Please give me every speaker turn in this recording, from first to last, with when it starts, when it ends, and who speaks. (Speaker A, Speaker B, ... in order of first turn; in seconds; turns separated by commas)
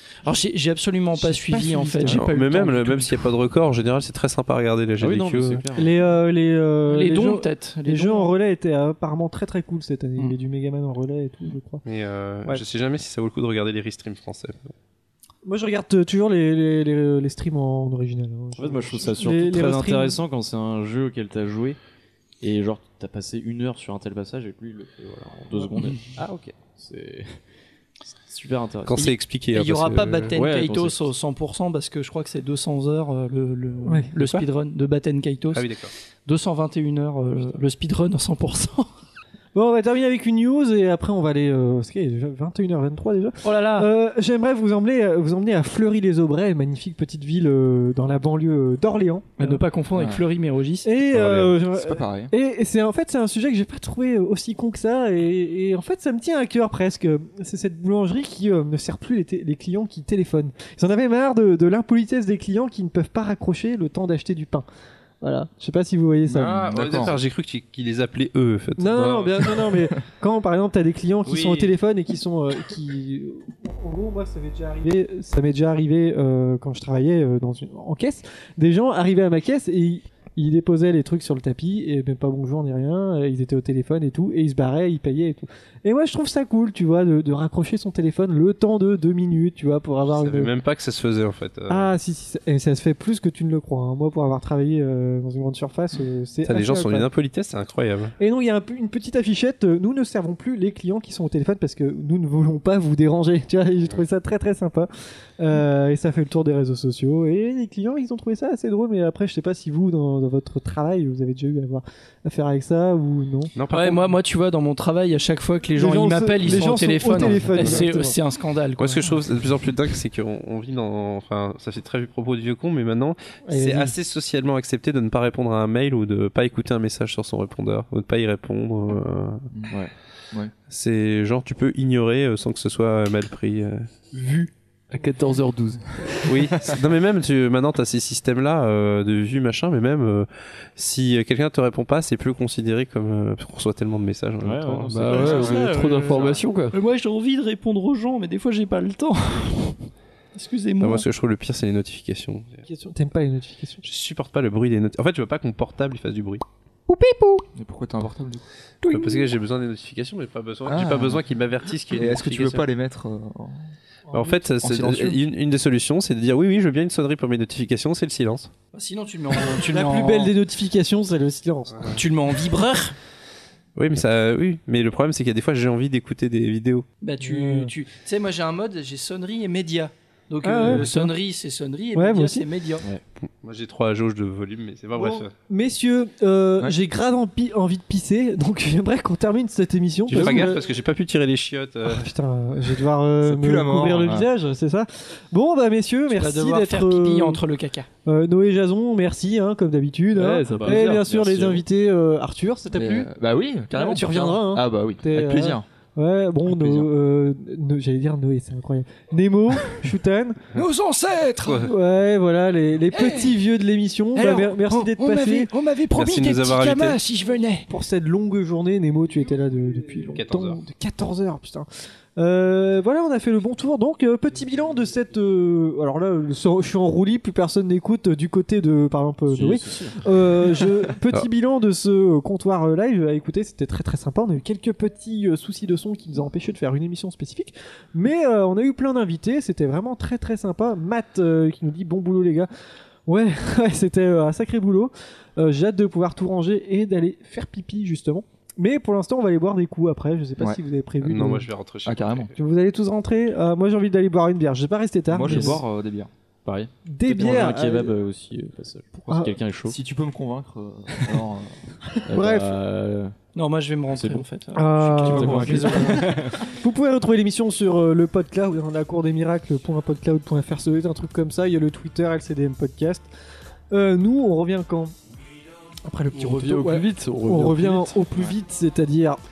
Speaker A: 0.2-3.2, Speaker B: 1.1-2.2, Speaker C: 2.1-5.6, Speaker D: 5.0-6.0, Speaker B: 5.7-11.8, Speaker A: 6.9-8.3, Speaker C: 11.8-14.7, Speaker B: 15.4-20.2, Speaker D: 18.6-21.8, Speaker D: 22.4-27.4, Speaker D: 28.1-29.0, Speaker C: 28.9-30.3, Speaker A: 28.9-35.6, Speaker D: 30.3-31.1, Speaker B: 33.8-34.4, Speaker C: 35.5-35.9, Speaker A: 36.2-38.9, Speaker B: 39.5-49.6, Speaker A: 43.4-43.9, Speaker A: 49.4-50.9, Speaker E: 49.9-50.2, Speaker B: 50.8-64.6, Speaker C: 51.1-51.6, Speaker E: 51.7-52.3, Speaker B: 65.2-66.8, Speaker E: 66.3-67.2, Speaker C: 66.4-69.8, Speaker B: 68.8-90.5, Speaker C: 71.2-71.7, Speaker C: 90.1-91.9, Speaker B: 91.7-97.1, Speaker C: 96.5-98.1, Speaker B: 98.2-113.5, Speaker C: 113.5-114.1, Speaker A: 113.7-119.1, Speaker B: 115.8-118.2, Speaker C: 117.2-117.8, Speaker C: 118.8-129.5, Speaker B: 123.5-124.0, Speaker E: 129.5-130.5, Speaker C: 130.7-133.9, Speaker F: 134.1-136.3, Speaker C: 136.2-145.3, Speaker D: 144.4-146.5, Speaker F: 144.9-146.7, Speaker A: 145.1-151.1, Speaker E: 145.4-145.6, Speaker C: 150.8-152.6, Speaker B: 152.6-153.8, Speaker C: 153.8-156.4, Speaker A: 156.9-157.4, Speaker E: 157.5-158.4, Speaker A: 158.8-159.2, Speaker C: 158.8-162.7, Speaker E: 160.7-161.2, Speaker E: 161.9-163.7, Speaker B: 164.1-164.5, Speaker C: 164.1-168.5, Speaker E: 164.6-165.2, Speaker A: 168.7-170.3, Speaker B: 169.6-171.9, Speaker A: 171.9-173.0, Speaker C: 173.8-176.8, Speaker A: 177.0-182.8, Speaker B: 177.2-177.7, Speaker B: 180.4-181.1, Speaker B: 181.9-182.4, Speaker C: 183.4-185.3, Speaker B: 184.9-190.6, Speaker C: 190.1-192.1, Speaker F: 190.2-190.5, Speaker B: 191.8-197.4, Speaker E: 193.2-194.3, Speaker A: 196.1-197.9, Speaker B: 198.0-203.1, Speaker F: 200.1-201.1, Speaker D: 200.5-201.7, Speaker E: 202.7-205.7, Speaker B: 203.7-210.4, Speaker A: 210.5-211.7, Speaker C: 211.4-211.7, Speaker B: 211.6-215.5, Speaker A: 212.9-213.3, Speaker A: 214.1-217.7, Speaker C: 215.9-217.0, Speaker B: 217.7-242.5, Speaker C: 220.1-220.6, Speaker D: 229.3-230.0, Speaker B: 243.1-251.5, Speaker C: 251.0-252.3, Speaker E: 251.8-252.3, Speaker B: 252.3-255.6, Speaker E: 255.1-256.1, Speaker D: 255.2-255.6, Speaker D: 256.4-259.8, Speaker B: 256.9-257.9, Speaker B: 259.1-259.4, Speaker E: 259.6-261.8, Speaker D: 262.1-263.2, Speaker B: 262.1-262.5, Speaker A: 263.3-266.1, Speaker D: 263.9-264.2, Speaker B: 264.5-273.1, Speaker D: 265.0-266.5, Speaker E: 265.1-266.1, Speaker B: 273.7-274.9, Speaker B: 275.9-279.2, Speaker F: 276.1-278.1